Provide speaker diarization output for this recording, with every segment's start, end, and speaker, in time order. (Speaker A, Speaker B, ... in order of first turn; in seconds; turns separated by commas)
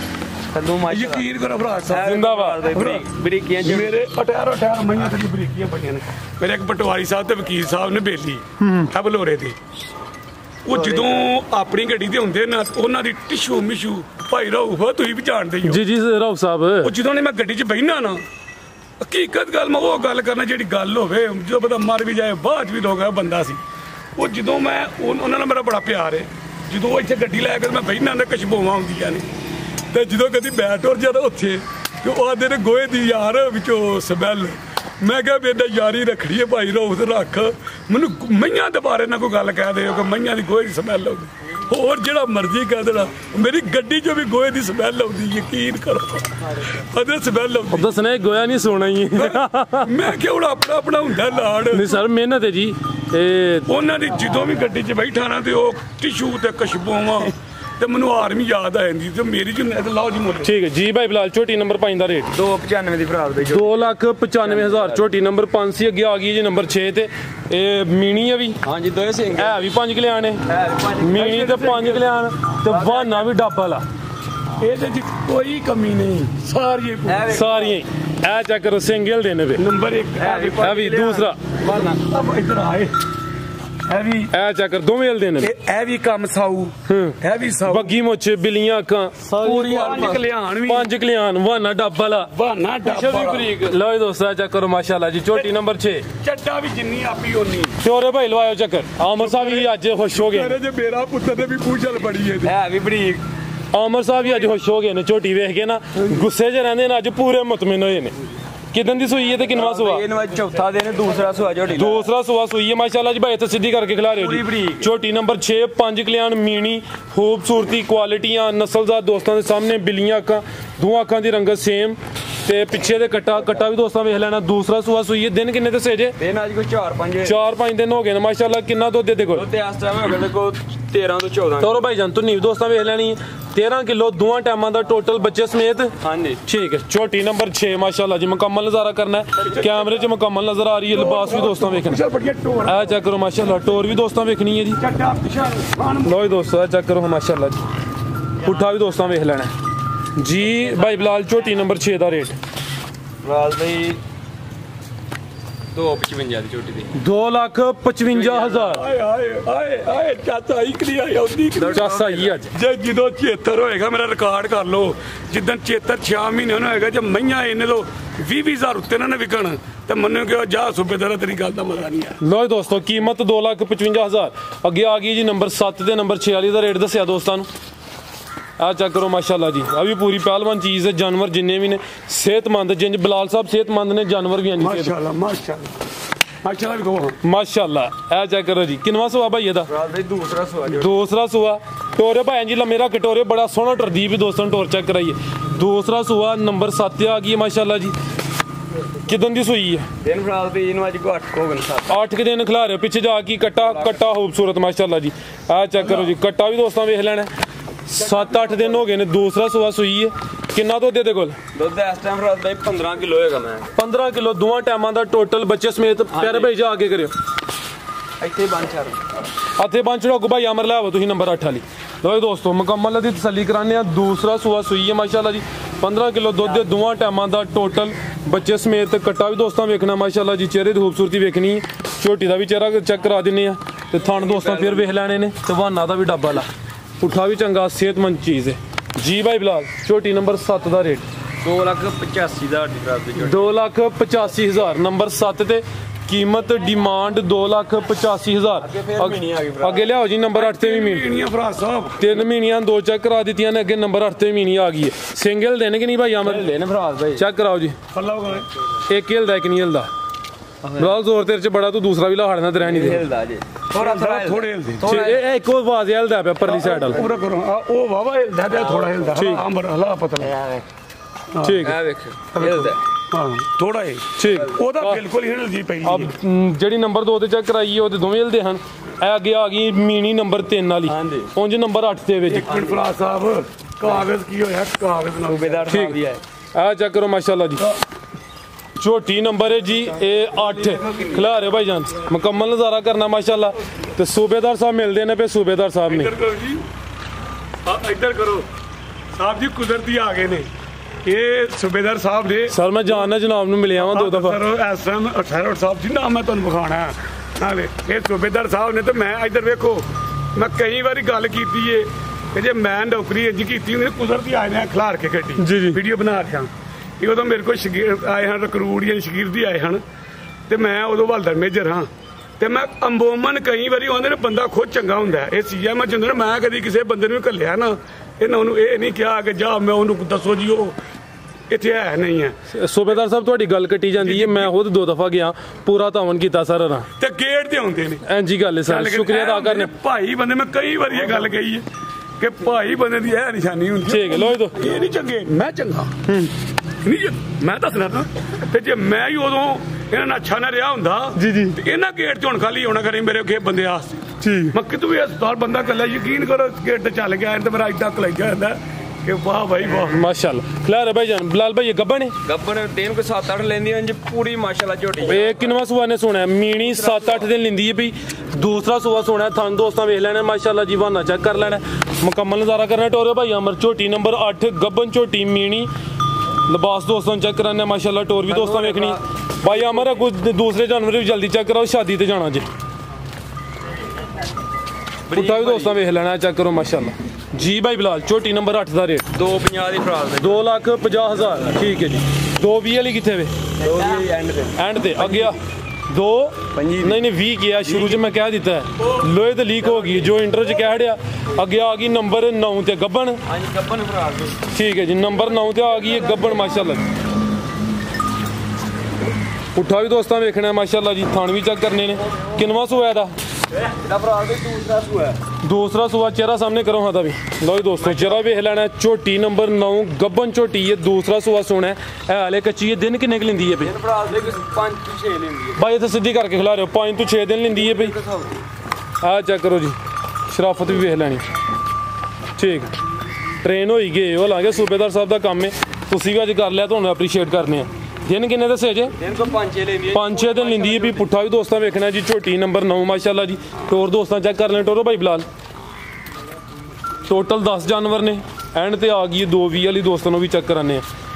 Speaker A: 0.5-1.2, Speaker B: 0.9-2.2, Speaker A: 1.9-3.9, Speaker C: 2.0-2.6, Speaker B: 2.7-3.0, Speaker B: 3.6-9.6, Speaker C: 8.6-8.9, Speaker B: 10.6-15.8, Speaker A: 10.7-11.3, Speaker C: 15.6-16.9, Speaker B: 16.8-18.2, Speaker B: 19.0-23.6, Speaker B: 24.1-29.3, Speaker B: 29.9-47.9, Speaker C: 47.7-50.1, Speaker B: 49.2-52.0, Speaker C: 51.7-53.7, Speaker B: 53.7-60.5, Speaker C: 60.4-62.3, Speaker A: 62.3-63.8, Speaker C: 63.4-68.6, Speaker A: 64.4-65.0, Speaker A: 68.6-69.6, Speaker C: 69.3-70.4, Speaker A: 70.5-71.3, Speaker C: 71.0-73.8, Speaker B: 71.2-72.1, Speaker A: 72.7-73.2, Speaker B: 74.6-77.3, Speaker A: 77.0-77.8, Speaker C: 77.3-79.6, Speaker B: 79.6-80.8, Speaker A: 80.2-82.0, Speaker C: 80.6-81.4, Speaker B: 81.7-83.0, Speaker B: 83.9-84.3, Speaker C: 84.3-85.5, Speaker B: 85.4-87.9, Speaker C: 86.9-89.9, Speaker A: 89.3-90.3, Speaker B: 89.4-90.9, Speaker C: 90.6-92.3, Speaker B: 92.2-93.7, Speaker C: 92.8-96.0, Speaker B: 96.2-97.8, Speaker C: 97.8-100.6, Speaker B: 99.2-102.5, Speaker A: 102.4-103.2, Speaker C: 103.7-108.2, Speaker C: 108.7-110.0, Speaker A: 109.5-112.0, Speaker C: 111.7-126.2, Speaker A: 114.2-114.9, Speaker A: 126.2-127.4, Speaker C: 127.2-129.5, Speaker A: 129.3-131.9, Speaker C: 131.6-135.9, Speaker A: 136.0-136.4, Speaker C: 136.4-142.0, Speaker B: 139.5-140.0, Speaker B: 140.9-142.9, Speaker C: 142.6-144.8, Speaker B: 144.8-146.2, Speaker C: 146.0-147.6, Speaker C: 148.4-149.5, Speaker C: 150.2-152.3, Speaker A: 153.2-154.0, Speaker A: 155.7-156.9, Speaker C: 156.9-158.8, Speaker A: 158.1-158.8, Speaker B: 158.6-161.9, Speaker A: 161.6-162.4, Speaker C: 161.7-162.5, Speaker B: 162.5-172.2, Speaker C: 172.2-177.5, Speaker C: 178.6-184.9, Speaker B: 184.6-185.7, Speaker B: 186.4-187.2, Speaker C: 187.2-189.7, Speaker A: 189.7-190.9, Speaker C: 190.8-197.9, Speaker C: 199.1-199.9, Speaker A: 200.0-202.0, Speaker C: 201.9-207.3, Speaker A: 203.6-204.0, Speaker C: 207.9-211.4, Speaker A: 208.1-208.7, Speaker A: 211.5-213.7, Speaker C: 213.8-217.1, Speaker A: 216.1-216.5, Speaker A: 218.2-219.0, Speaker C: 219.6-236.5, Speaker A: 234.0-234.9, Speaker C: 237.0-241.0, Speaker A: 241.4-243.5, Speaker C: 243.2-251.1, Speaker A: 248.6-249.9, Speaker B: 250.3-252.1, Speaker C: 252.0-256.5, Speaker A: 256.2-257.2, Speaker C: 257.2-257.8, Speaker B: 257.9-258.5, Speaker C: 258.9-259.9, Speaker A: 260.6-261.0, Speaker C: 260.8-263.0, Speaker A: 262.6-265.2, Speaker B: 263.7-265.0, Speaker C: 264.8-267.0, Speaker B: 266.4-270.4, Speaker A: 268.6-269.1, Speaker C: 269.1-269.4, Speaker B: 271.3-271.7, Speaker C: 271.4-271.8, Speaker A: 271.6-272.8, Speaker B: 272.3-276.1, Speaker C: 274.2-275.0, Speaker C: 275.8-282.5, Speaker A: 280.9-281.3, Speaker B: 282.3-285.8, Speaker A: 282.5-282.8, Speaker A: 285.2-286.2, Speaker C: 285.7-286.0, Speaker C: 286.5-287.6, Speaker C: 288.8-296.1, Speaker A: 290.6-291.3, Speaker B: 295.9-296.6, Speaker B: 297.6-298.5, Speaker B: 299.1-300.5, Speaker B: 301.0-303.1, Speaker C: 302.5-304.4, Speaker B: 303.8-319.8, Speaker C: 315.4-315.8, Speaker B: 320.5-321.9, Speaker B: 322.4-330.8, Speaker B: 331.5-332.4, Speaker C: 332.5-336.9, Speaker B: 334.0-334.5, Speaker B: 337.0-338.0, Speaker C: 338.0-339.7, Speaker B: 338.7-341.6, Speaker B: 342.2-345.9, Speaker C: 343.9-344.6, Speaker C: 346.1-346.3, Speaker B: 346.8-360.0, Speaker C: 351.1-351.6, Speaker C: 354.2-354.5, Speaker C: 359.9-362.1, Speaker A: 362.2-365.4, Speaker C: 365.0-375.7, Speaker A: 366.8-367.1, Speaker C: 376.4-382.5, Speaker A: 378.3-380.0, Speaker A: 385.1-385.8, Speaker C: 385.1-389.1, Speaker A: 389.1-390.5, Speaker C: 390.2-393.3, Speaker A: 393.6-395.3, Speaker C: 394.6-395.4, Speaker C: 395.9-403.2, Speaker A: 396.5-397.0, Speaker A: 397.7-398.0, Speaker A: 399.7-400.1, Speaker A: 403.2-404.4, Speaker C: 404.5-406.8, Speaker C: 409.5-413.1, Speaker A: 413.6-415.2, Speaker C: 415.4-423.7, Speaker A: 417.8-418.3, Speaker A: 423.6-425.6, Speaker C: 425.6-427.9, Speaker A: 427.5-428.4, Speaker C: 429.0-429.8, Speaker C: 430.3-431.3, Speaker C: 432.4-432.7, Speaker C: 433.4-438.9, Speaker A: 439.0-441.1, Speaker C: 439.9-445.3, Speaker C: 447.1-450.8